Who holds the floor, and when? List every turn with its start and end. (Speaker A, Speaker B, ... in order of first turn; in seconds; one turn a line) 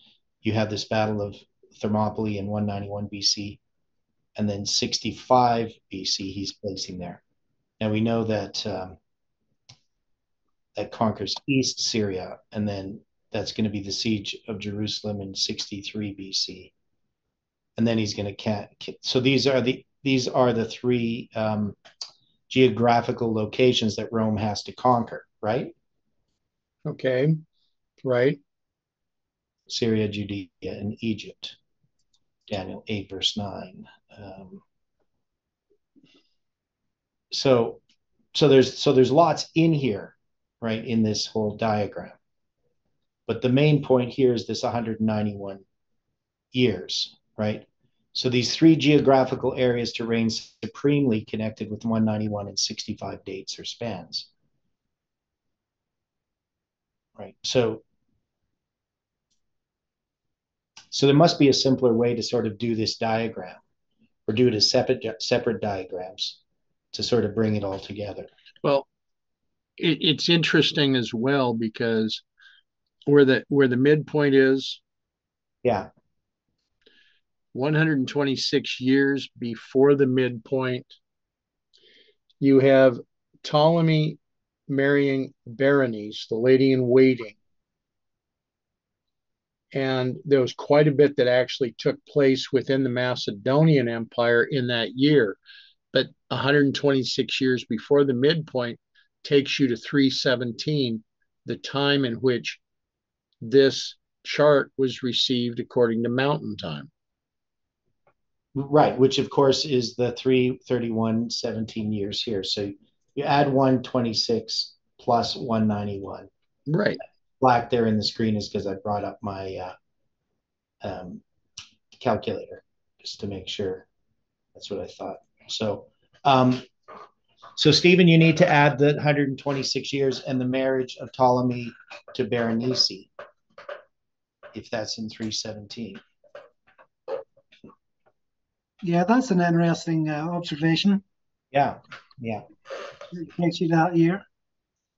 Speaker A: 0.4-3.6
Speaker A: 4.4-7.2
Speaker A: 7.8-9.0
Speaker A: 10.7-16.7
Speaker A: 17.8-21.8
Speaker A: 22.5-25.7
Speaker B: 26.8-27.4
Speaker B: 28.0-28.4
Speaker A: 29.7-31.6
Speaker A: 32.5-34.6
Speaker A: 37.3-37.8
Speaker A: 38.3-42.2
Speaker A: 43.3-45.6
Speaker A: 46.5-54.3
Speaker A: 57.2-57.8
Speaker A: 60.9-63.6
Speaker A: 64.3-66.4
Speaker A: 66.9-68.3
Speaker B: 68.6-68.9
Speaker B: 69.8-72.2
Speaker B: 73.0-74.8
Speaker B: 77.5-81.0
Speaker B: 82.4-87.4
Speaker B: 89.7-95.4
Speaker B: 95.9-102.6
Speaker B: 103.4-106.9
Speaker A: 108.5-116.3
Speaker B: 116.7-117.0
Speaker A: 117.4-119.7
Speaker A: 120.8-121.2
Speaker A: 122.0-123.9
Speaker A: 124.5-126.7
Speaker A: 127.5-133.1
Speaker A: 134.5-136.0
Speaker C: 138.8-141.0
Speaker A: 141.5-142.4
Speaker C: 143.1-144.2